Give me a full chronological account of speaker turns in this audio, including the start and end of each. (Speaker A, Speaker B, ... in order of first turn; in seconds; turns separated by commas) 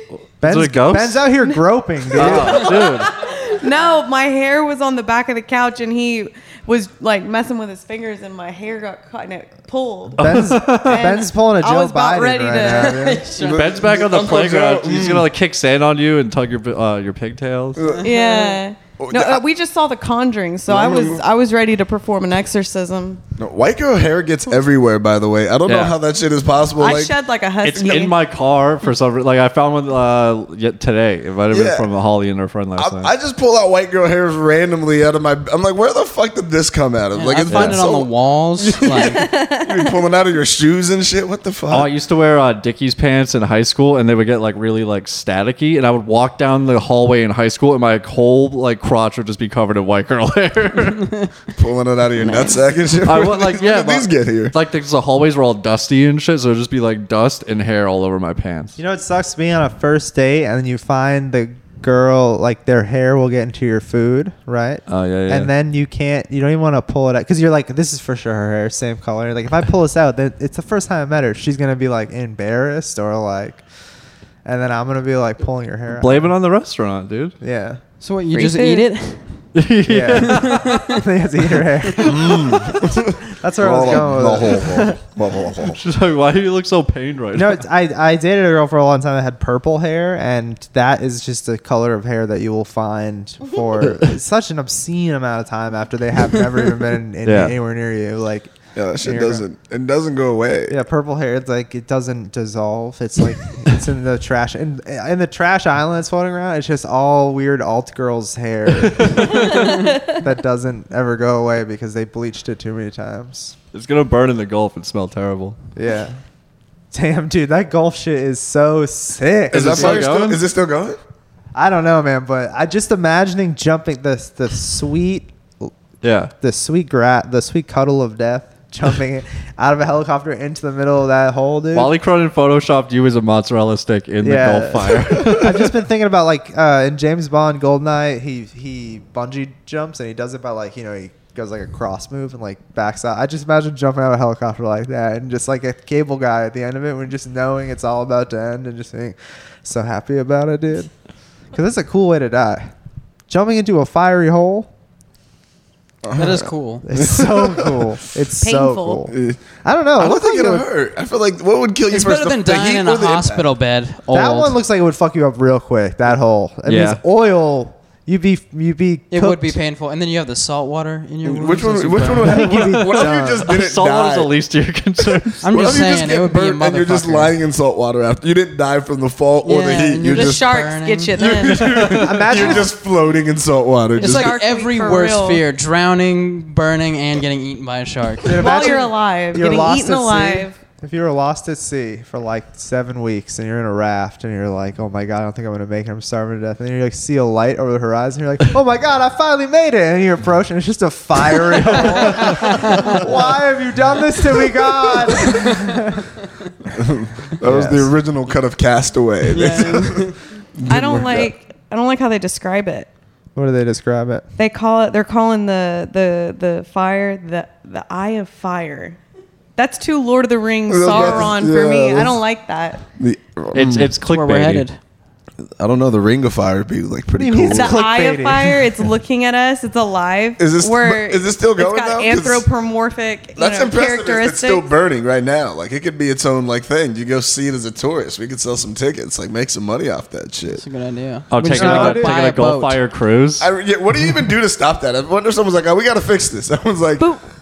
Speaker A: 0.3-1.3, Speaker B: 0.4-2.8, Speaker A: 2.1-3.1, Speaker C: 2.2-13.2, Speaker B: 10.2-13.3, Speaker A: 10.2-11.2, Speaker D: 12.8-13.8, Speaker E: 13.3-15.3, Speaker A: 13.4-17.8, Speaker E: 17.8-18.3, Speaker D: 17.8-18.5, Speaker C: 18.0-23.2, Speaker E: 19.0-19.4, Speaker E: 20.7-21.2, Speaker E: 23.4-27.2, Speaker A: 25.7-26.0, Speaker C: 26.8-28.2, Speaker A: 27.6-33.1, Speaker E: 31.5-31.9, Speaker E: 32.8-41.9, Speaker D: 37.1-39.3, Speaker A: 37.5-37.8, Speaker C: 38.8-40.0, Speaker A: 41.7-51.1, Speaker E: 51.5-54.5, Speaker C: 52.2-52.6, Speaker A: 53.0-58.8, Speaker B: 58.8-73.6, Speaker A: 64.9-65.5, Speaker B: 74.5-76.3, Speaker A: 75.9-77.4, Speaker B: 77.4-77.8, Speaker D: 78.0-79.3, Speaker C: 78.3-78.9, Speaker A: 79.5-80.7, Speaker B: 79.9-85.0, Speaker D: 80.2-81.0, Speaker E: 82.0-85.8, Speaker A: 85.7-87.6, Speaker B: 87.3-99.4, Speaker A: 97.2-97.5, Speaker E: 98.8-100.8, Speaker B: 100.7-113.6, Speaker A: 108.9-109.6, Speaker C: 109.3-110.2, Speaker A: 113.7-115.6, Speaker B: 115.8-116.2, Speaker B: 116.9-120.1, Speaker A: 119.5-120.4, Speaker E: 119.5-121.0, Speaker B: 121.5-125.7, Speaker A: 126.0-126.3, Speaker B: 126.4-131.9, Speaker A: 131.7-135.7, Speaker B: 134.2-150.9, Speaker B: 151.5-152.7, Speaker B: 153.3-154.7, Speaker E: 156.0-157.8, Speaker D: 156.2-156.9, Speaker B: 156.8-160.7, Speaker C: 158.4-159.1, Speaker E: 159.1-159.4, Speaker E: 160.0-163.5, Speaker D: 161.9-164.6, Speaker B: 164.1-169.6, Speaker A: 166.7-167.0, Speaker D: 169.1-172.7, Speaker E: 171.2-174.3, Speaker B: 172.2-173.5, Speaker A: 173.0-175.6, Speaker D: 175.4-177.3, Speaker E: 175.5-180.6, Speaker D: 179.4-181.6, Speaker C: 180.1-182.6, Speaker E: 181.2-184.4, Speaker B: 182.0-182.7, Speaker C: 184.0-185.4, Speaker D: 184.0-188.4, Speaker B: 188.3-206.1, Speaker C: 188.3-190.6, Speaker D: 202.3-203.0, Speaker E: 206.7-211.3, Speaker B: 207.4-207.9, Speaker D: 209.3-210.2, Speaker C: 210.7-212.9, Speaker B: 213.3-214.3, Speaker C: 214.4-219.0, Speaker C: 219.6-222.8, Speaker E: 220.7-222.2, Speaker B: 220.9-221.3, Speaker E: 223.0-223.9, Speaker A: 223.5-224.7, Speaker D: 224.0-224.8, Speaker E: 225.6-227.9, Speaker B: 227.2-228.7, Speaker C: 227.4-234.7, Speaker E: 230.4-232.5, Speaker E: 233.4-240.6, Speaker D: 240.5-242.8, Speaker A: 241.3-243.5, Speaker B: 241.5-242.2, Speaker E: 243.4-247.1